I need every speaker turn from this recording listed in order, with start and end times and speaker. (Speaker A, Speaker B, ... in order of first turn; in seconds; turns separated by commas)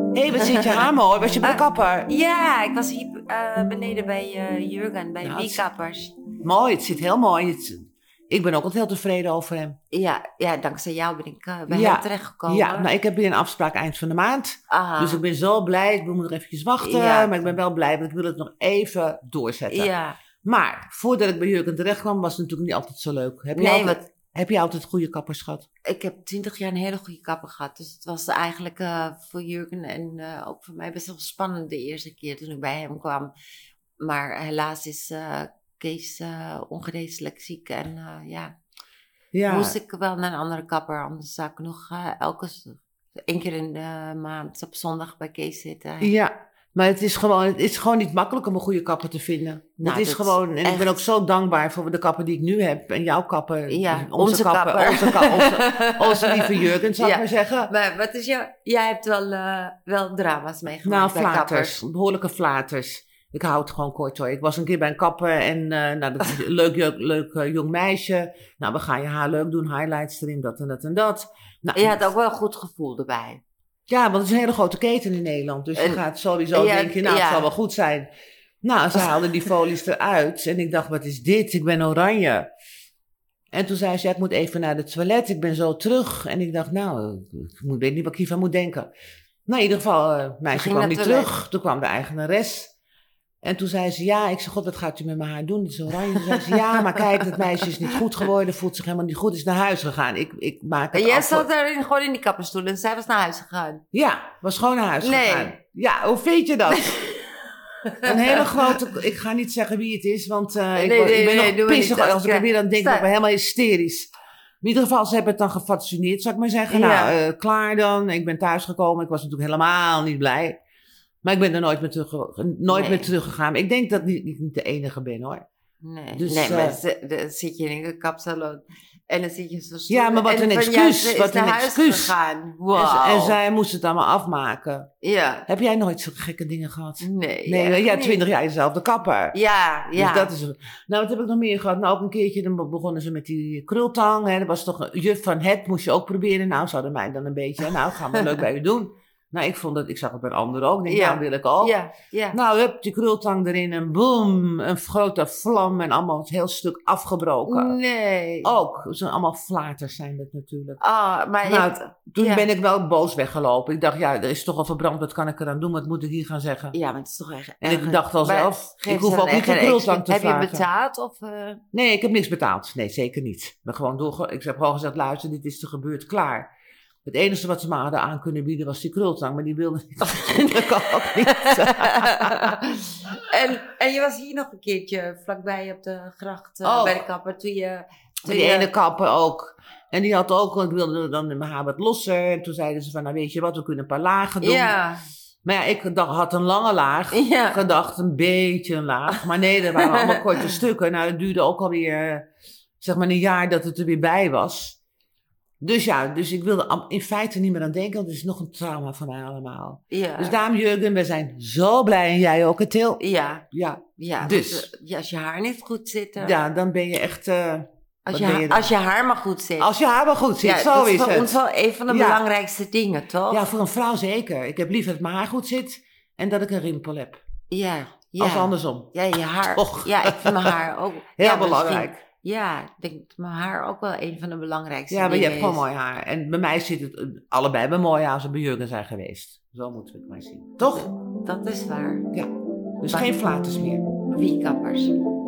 Speaker A: 0.1-2.1, Speaker B: 0.3-0.9, Speaker B: 1.4-6.1, Speaker A: 5.2-5.7, Speaker A: 6.4-9.8, Speaker B: 9.9-12.9, Speaker A: 11.7-19.9, Speaker B: 14.7-15.2, Speaker B: 16.8-17.4, Speaker B: 19.7-20.2, Speaker A: 20.4-25.7, Speaker B: 23.6-24.0, Speaker B: 25.9-33.3, Speaker B: 34.0-38.5, Speaker A: 39.3-39.8, Speaker B: 39.5-46.1, Speaker A: 46.0-57.7, Speaker B: 49.8-51.0, Speaker B: 53.7-61.8, Speaker A: 60.8-72.1, Speaker B: 71.7-73.4, Speaker A: 73.9-78.1, Speaker B: 75.8-76.0, Speaker B: 76.5-77.5, Speaker A: 78.6-82.5, Speaker B: 78.9-79.5, Speaker A: 83.5-88.9, Speaker A: 89.5-92.7, Speaker B: 90.5-91.3, Speaker A: 93.4-101.5, Speaker B: 96.2-97.9, Speaker B: 100.9-103.8, Speaker A: 103.9-107.0, Speaker B: 105.0-105.5, Speaker B: 106.7-108.8, Speaker A: 108.0-114.1, Speaker B: 110.8-113.1, Speaker A: 114.6-120.6, Speaker B: 116.7-117.2, Speaker A: 121.2-125.4, Speaker B: 122.7-123.1, Speaker B: 125.8-133.4, Speaker A: 126.1-126.8, Speaker A: 129.9-132.1, Speaker A: 132.7-134.9, Speaker B: 135.0-135.4, Speaker A: 135.5-139.3, Speaker B: 137.0-138.2, Speaker B: 139.3-140.3, Speaker A: 139.9-151.8, Speaker B: 147.9-148.4, Speaker B: 150.9-152.4, Speaker A: 152.3-157.8, Speaker B: 157.5-158.5, Speaker A: 158.4-160.8, Speaker B: 160.8-162.5, Speaker A: 161.4-166.8, Speaker B: 166.7-171.6, Speaker A: 167.6-170.7, Speaker A: 171.7-176.5, Speaker A: 177.0-182.6, Speaker B: 180.1-188.7, Speaker A: 186.6-187.0, Speaker A: 188.2-194.8, Speaker B: 194.4-195.0, Speaker A: 195.4-202.2, Speaker B: 197.1-197.6, Speaker B: 199.8-200.5, Speaker A: 202.8-204.8, Speaker A: 205.6-213.0, Speaker B: 209.9-210.4, Speaker B: 213.0-213.4, Speaker A: 213.5-214.7, Speaker B: 214.0-216.4, Speaker A: 216.2-218.7, Speaker B: 218.1-219.7, Speaker A: 219.6-222.2, Speaker B: 220.4-223.5, Speaker A: 223.3-227.2, Speaker B: 227.5-235.6, Speaker A: 228.2-228.9, Speaker A: 229.5-230.6, Speaker A: 231.2-232.0, Speaker A: 234.9-240.9, Speaker B: 240.6-242.1, Speaker A: 242.8-243.9, Speaker B: 242.9-243.1, Speaker B: 244.1-244.9